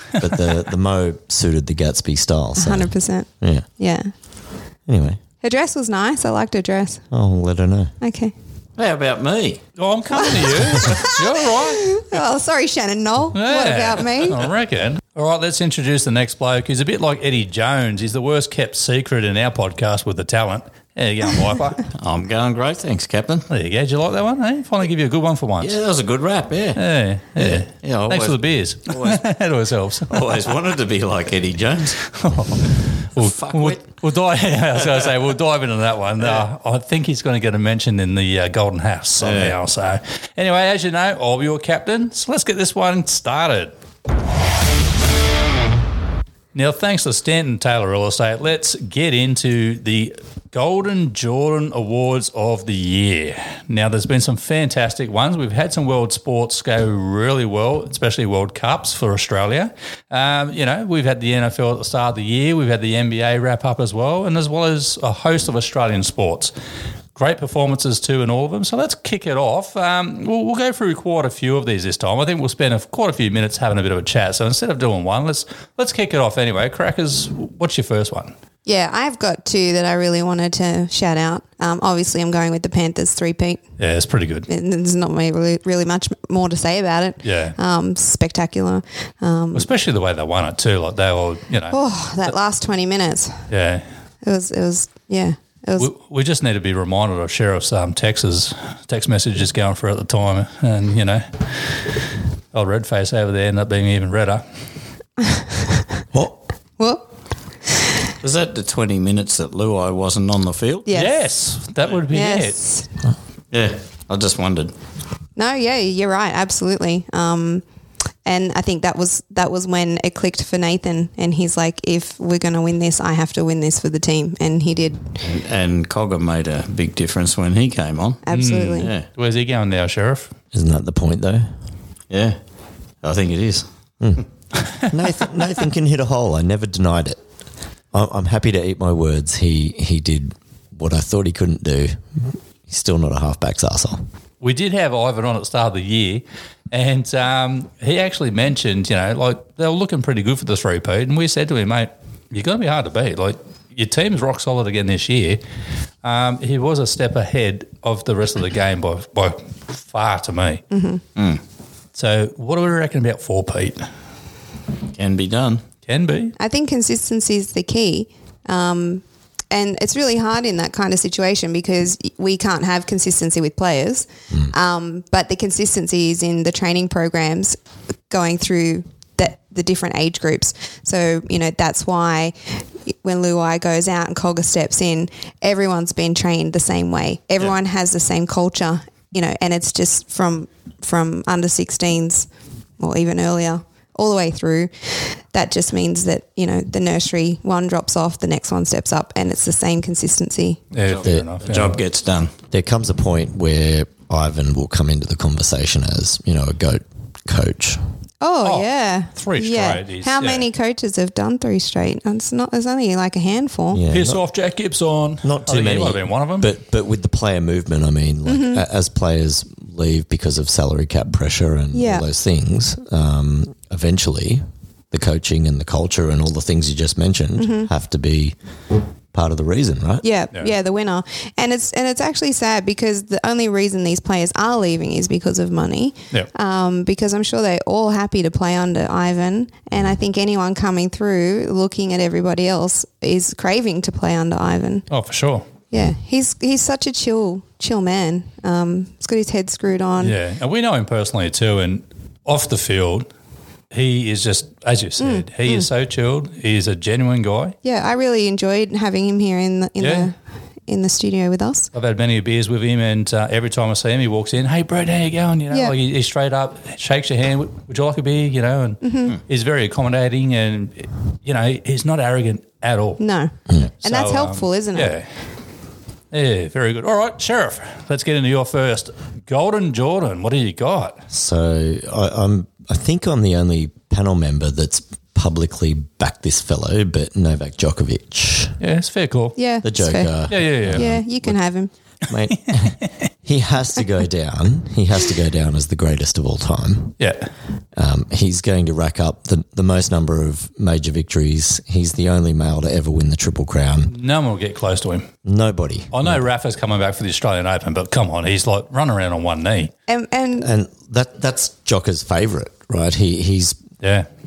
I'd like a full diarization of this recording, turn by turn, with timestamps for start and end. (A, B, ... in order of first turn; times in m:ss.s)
0:00.2-0:03.6 A
0:00.2-0:00.4 B
0:02.6-0:04.1 C
0:04.9-0:05.2 A
0:05.4-0:07.0 C
0:07.1-0:07.9 A
0:08.0-0:08.3 C
0:08.8-0:09.6 D
0:09.8-0:12.2 B
0:10.1-0:14.4 C
0:13.3-0:21.9 B
0:21.9-0:23.5 D
0:23.5-0:25.8 B
0:25.6-0:26.8 D
0:26.8-0:30.6 B
0:27.4-0:28.4 D
0:28.9-0:29.2 D
0:30.1-0:32.0 D
0:32.0-0:43.7 B
0:33.1-0:33.8 D
0:34.8-0:35.1 D
0:39.2-0:39.6 D
0:46.5-1:06.5 B
1:07.1-1:18.3 B
1:18.6-1:23.6 C
1:23.8-1:24.5 B
1:24.5-1:29.7 C
1:27.2-1:27.6 B
1:29.5-1:32.3 B
1:31.7-1:33.4 C
1:33.5-1:33.8 B
1:34.2-1:35.9 C
1:35.8-1:41.9 B
1:42.5-1:44.4 B
1:45.2-1:45.8 C
1:46.8-1:47.0 C
1:48.2-1:50.9 D
1:50.8-1:51.2 C
1:50.9-1:52.6 B
1:52.1-1:52.9 C
1:53.5-1:54.7 D
1:55.4-1:57.6 C
1:58.2-2:05.2 C
2:05.2-2:09.1 D
2:08.2-2:08.9 C
2:08.3-2:10.3 B
2:10.5-2:11.5 A
2:12.1-2:12.4 D
2:13.0-2:14.2 D
2:14.0-2:14.2 A
2:14.8-2:17.2 A
2:17.9-2:22.0 A
2:22.7-2:24.0 A
2:24.4-2:35.4 B
2:36.0-2:40.6 B
2:40.7-2:41.0 C
2:41.2-2:41.4 D
2:41.9-2:43.9 B
2:44.9-2:45.6 D
2:45.9-2:46.3 B
2:46.4-2:57.6 C
2:58.1-3:12.3 C
3:12.8-3:20.6 C
3:20.7-3:21.8 B
3:20.8-3:22.3 D
3:21.0-3:21.3 A
3:22.5-3:27.8 A
3:28.2-3:33.8 C
3:28.4-3:30.5 B
3:33.7-3:34.2 A
3:33.9-3:36.5 B
3:35.2-3:48.3 A
3:38.2-3:38.6 C
3:41.7-3:42.0 C
3:47.4-3:47.7 C
3:49.1-3:50.0 A
3:50.0-4:04.9 C
4:04.9-4:05.5 B
4:05.7-4:10.1 C
4:10.0-4:13.1 B
4:13.7-4:17.6 B
4:15.0-4:15.7 C
4:17.6-4:20.1 C
4:19.8-4:20.1 B
4:20.7-4:21.7 C
4:21.7-4:33.0 B
4:28.8-4:29.2 C
4:33.0-4:34.9 C
4:33.8-4:35.1 B
4:36.1-4:41.0 B
4:41.1-4:48.6 A
4:48.6-4:49.4 B
4:49.4-4:51.7 C
4:49.6-4:51.4 A
4:50.3-4:50.9 B
4:52.0-4:56.9 A
4:52.4-4:52.9 B
4:57.0-4:57.3 B
4:57.7-5:03.9 A
5:03.9-5:05.1 B
5:05.2-5:06.2 A
5:05.9-5:09.7 B
5:09.9-5:10.5 C
5:10.4-5:13.6 A
5:13.8-5:14.1 B